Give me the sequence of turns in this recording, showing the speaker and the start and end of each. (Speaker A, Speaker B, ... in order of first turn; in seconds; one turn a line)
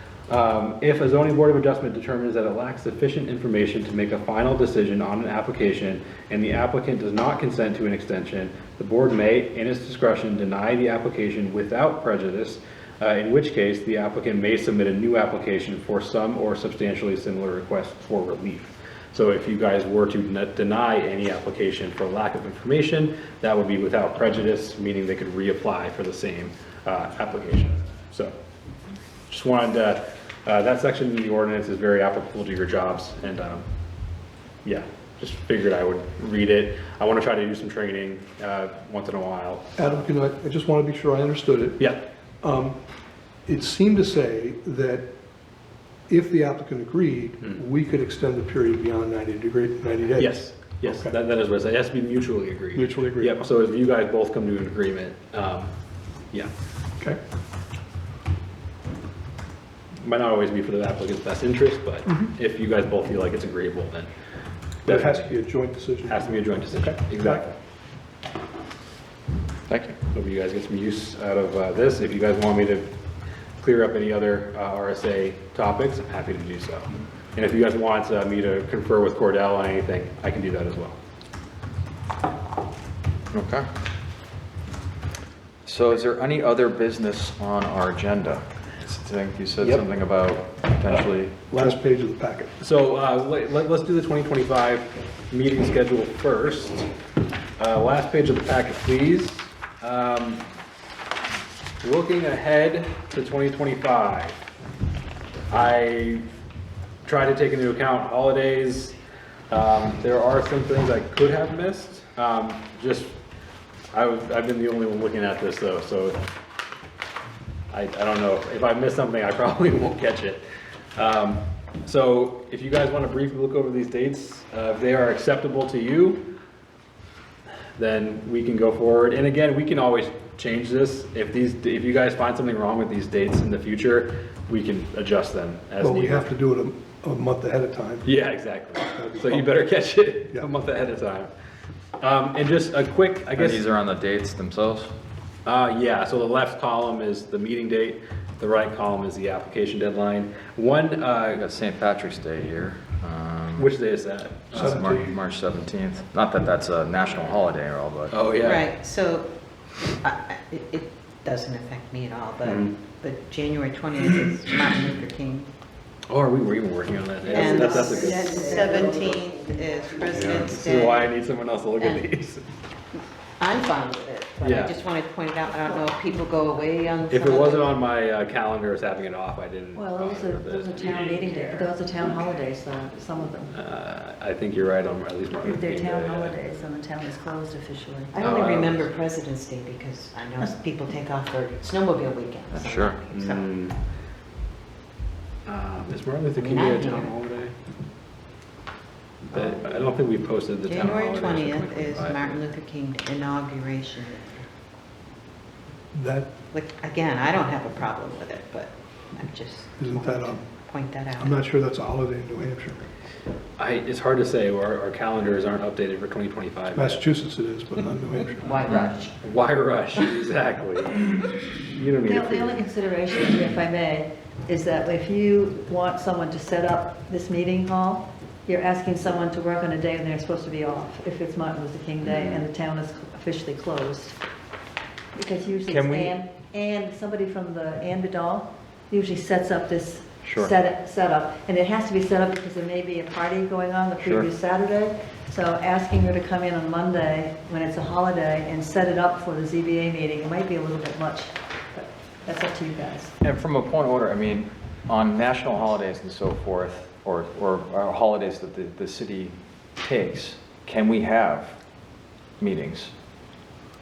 Speaker A: 0.3-28.4
Speaker A: 29.3-33.7
Speaker A: 34.6-40.0
Speaker B: 39.8-42.8
Speaker A: 41.8-42.0
Speaker B: 43.5-45.1
Speaker B: 46.1-51.1
Speaker A: 50.2-55.7
Speaker B: 52.7-53.5
Speaker A: 60.0-64.1
Speaker A: 64.8-65.4
Speaker B: 64.8-67.5
Speaker A: 66.0-67.5
Speaker C: 69.7-70.0
Speaker A: 70.1-72.9
Speaker A: 73.6-81.0
Speaker C: 83.3-83.7
Speaker C: 85.6-91.4
Speaker B: 91.5-92.6
Speaker A: 92.6-96.9
Speaker A: 97.6-100.4
Speaker A: 101.8-104.4
Speaker A: 105.5-106.2
Speaker A: 107.0-108.9
Speaker A: 109.5-113.1
Speaker A: 113.9-116.2
Speaker A: 117.7-120.4
Speaker A: 121.0-126.3
Speaker A: 127.8-136.3
Speaker B: 135.8-138.2
Speaker A: 138.0-141.3
Speaker B: 138.8-139.7
Speaker A: 142.0-143.6
Speaker C: 143.4-144.9
Speaker A: 145.4-151.4
Speaker C: 151.3-153.7
Speaker A: 153.6-154.8
Speaker C: 154.5-158.2
Speaker B: 154.5-155.2
Speaker A: 158.1-158.7
Speaker D: 158.4-165.5
Speaker A: 162.4-162.7
Speaker A: 166.1-168.6
Speaker D: 167.3-171.1
Speaker E: 167.5-169.2
Speaker A: 170.2-172.4
Speaker D: 171.8-172.1
Speaker D: 173.4-177.8
Speaker A: 174.4-174.8
Speaker A: 177.1-181.4
Speaker E: 179.7-183.6
Speaker A: 183.5-186.4
Speaker E: 185.4-188.1
Speaker D: 188.1-193.5
Speaker A: 188.2-188.9
Speaker C: 192.5-193.0
Speaker A: 193.1-193.8
Speaker A: 195.5-197.6
Speaker D: 196.4-197.1
Speaker A: 199.3-202.4
Speaker D: 199.3-199.8
Speaker D: 200.7-204.4
Speaker B: 205.9-206.3
Speaker D: 206.5-211.4
Speaker B: 209.8-210.5
Speaker B: 211.2-212.8
Speaker A: 213.6-217.0
Speaker B: 216.7-218.7
Speaker D: 218.4-219.1
Speaker A: 219.2-221.2
Speaker A: 221.7-222.6
Speaker E: 222.0-234.2
Speaker C: 232.0-232.4
Speaker E: 235.1-253.1
Speaker C: 235.7-236.2
Speaker C: 240.2-240.5
Speaker C: 244.0-244.3
Speaker C: 253.2-261.6
Speaker C: 262.4-262.9